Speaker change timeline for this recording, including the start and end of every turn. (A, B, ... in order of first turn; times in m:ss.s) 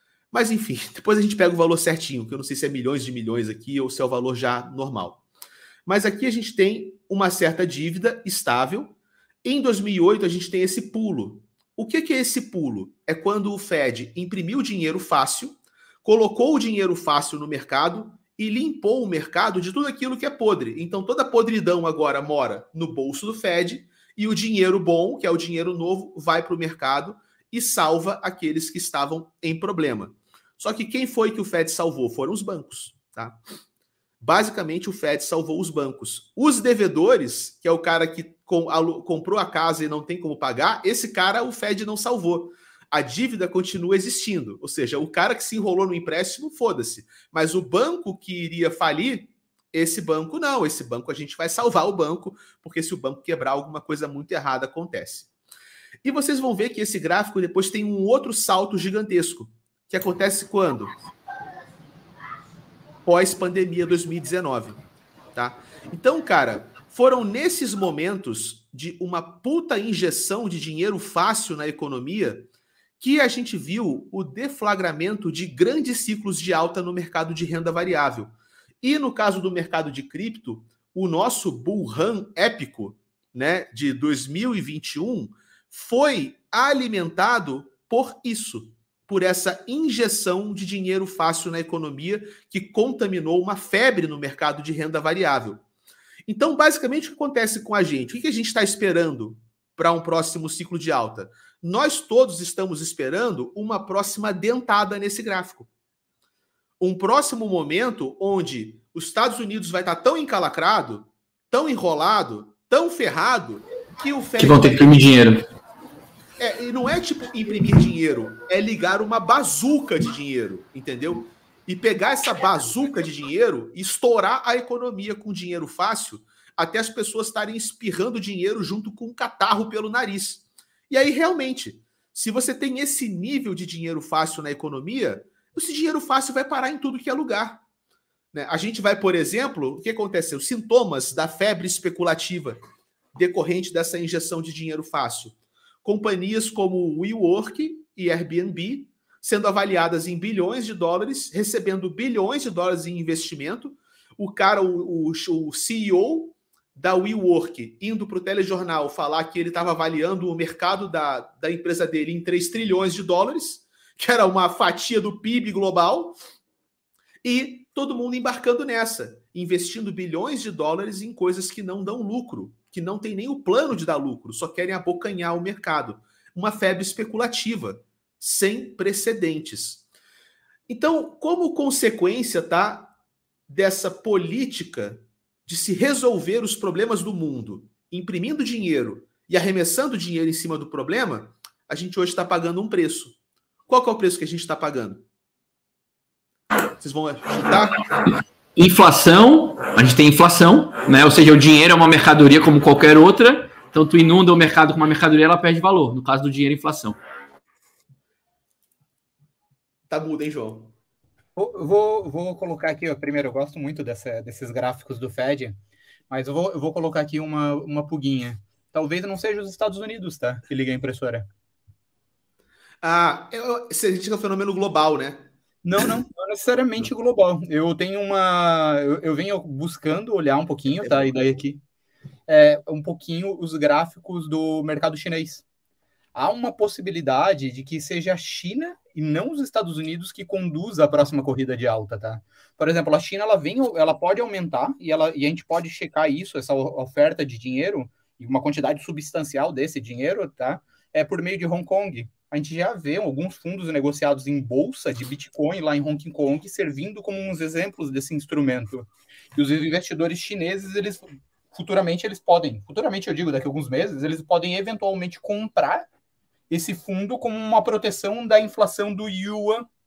0:00.3-0:05.2 A
0:05.8-0:33.4 A
0:34.2-0:55.3 A
0:56.0-1:00.9 A
1:03.0-1:04.8 A
1:05.3-1:12.5 A
1:13.0-1:35.6 A
1:36.2-1:45.7 A
1:46.8-1:55.2 A
1:54.4-1:55.4 B
1:56.4-2:17.6 A
2:18.3-2:22.6 A
2:23.1-2:46.2 A
2:47.2-2:59.8 A
3:00.7-3:02.9 A
3:03.5-3:13.2 A
3:13.7-3:15.0 A
3:16.8-3:17.7 A
3:18.6-3:27.0 B
3:29.9-3:30.7 A
3:31.4-3:35.6 C
3:36.1-3:41.2 C
3:42.8-3:45.3 A
3:45.6-3:51.6 C
3:50.8-3:51.1 A
3:52.3-3:55.4 C
3:56.1-4:25.9 C
4:26.5-4:29.7 C